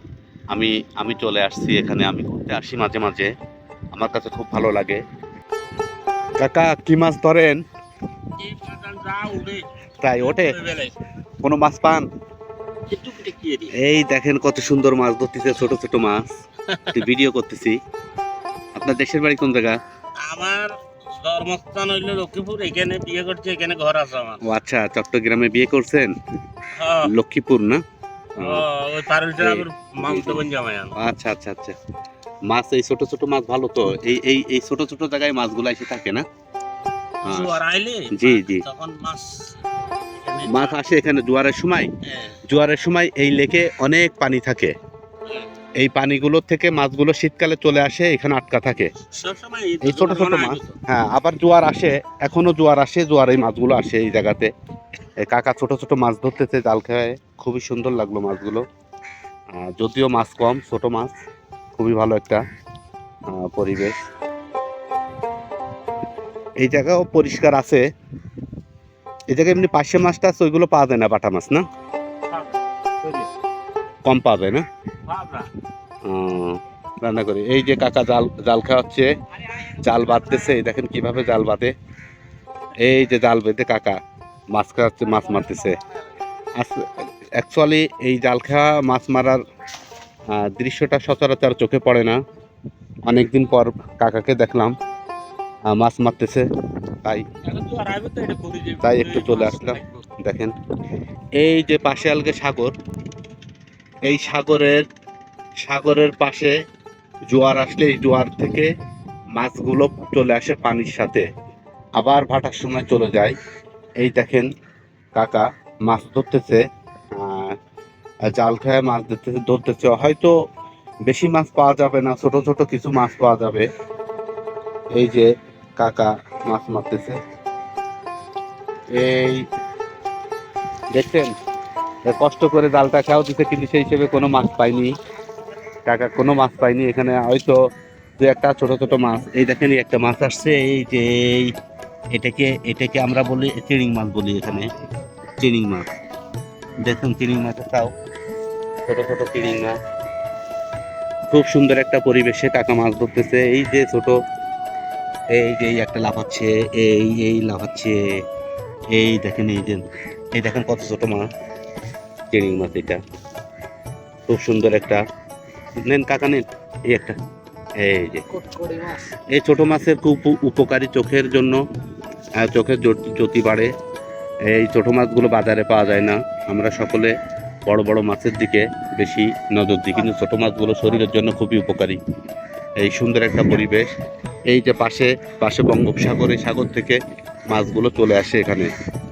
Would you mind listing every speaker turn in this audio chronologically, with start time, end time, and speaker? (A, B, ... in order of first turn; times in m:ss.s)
0:00.5-0:03.3 A
0:03.9-0:05.0 A
0:06.4-0:07.6 A
0:08.4-0:11.0 B
0:10.0-0:10.6 A
0:11.4-0:12.1 A
0:12.9-0:13.8 B
0:13.8-0:16.3 A
0:16.7-0:17.1 B
0:16.9-0:17.8 A
0:18.8-0:19.8 A
0:20.2-0:24.4 B
0:24.4-0:26.1 A
0:26.8-0:27.1 B
0:27.0-0:27.8 A
0:28.4-0:28.6 A
0:28.4-0:31.0 B
0:29.4-0:30.4 A
0:31.0-0:31.8 A
0:32.5-0:36.2 A
0:37.2-0:39.6 B
0:37.2-0:37.6 A
0:38.1-0:38.6 A
0:40.2-0:40.8 B
0:40.5-0:41.9 A
0:42.0-0:42.4 B
0:42.5-0:44.7 A
0:45.8-0:48.9 A
0:49.0-0:50.8 B
0:49.8-0:54.5 A
0:55.2-0:58.6 A
0:59.6-1:01.1 A
1:01.8-1:02.4 A
1:03.3-1:03.9 A
1:06.6-1:07.8 A
1:09.3-1:11.6 A
1:12.3-1:13.3 B
1:14.1-1:14.6 A
1:15.1-1:15.5 B
1:16.0-1:19.1 A
1:19.8-1:21.7 A
1:22.8-1:24.0 A
1:24.6-1:25.8 A
1:26.6-1:26.9 A
1:27.4-1:29.4 A
1:30.3-1:32.2 A
1:33.1-1:34.7 A
1:35.7-1:36.5 A
1:37.4-1:40.1 B
1:38.8-1:40.5 A
1:41.4-1:42.7 A
1:44.1-1:44.8 A
1:45.6-1:46.6 A
1:47.3-1:48.7 A
1:49.4-1:51.3 A
1:52.0-1:53.4 A
1:54.0-1:54.5 A
1:55.2-1:56.6 A
1:57.2-1:57.6 A
1:58.3-2:00.3 A
2:01.1-2:03.7 A
2:05.0-2:05.3 A
2:05.8-2:07.2 A
2:08.9-2:09.4 A
2:11.0-2:11.3 A
2:12.1-2:14.9 A
2:15.9-2:17.6 A
2:18.2-2:21.5 A
2:22.1-2:24.7 A
2:25.4-2:25.9 A
2:26.8-2:27.9 A
2:28.9-2:29.8 A
2:31.3-2:34.2 A
2:35.4-2:38.0 A
2:38.9-2:41.3 A
2:42.3-2:43.0 A
2:44.3-2:45.0 A
2:45.9-2:47.2 A
2:47.8-2:48.4 A
2:49.4-2:51.6 A
2:52.4-2:53.7 A
2:54.5-2:57.1 A
2:57.7-3:02.0 A
3:02.8-3:03.9 A
3:04.5-3:07.0 A
3:07.5-3:08.7 A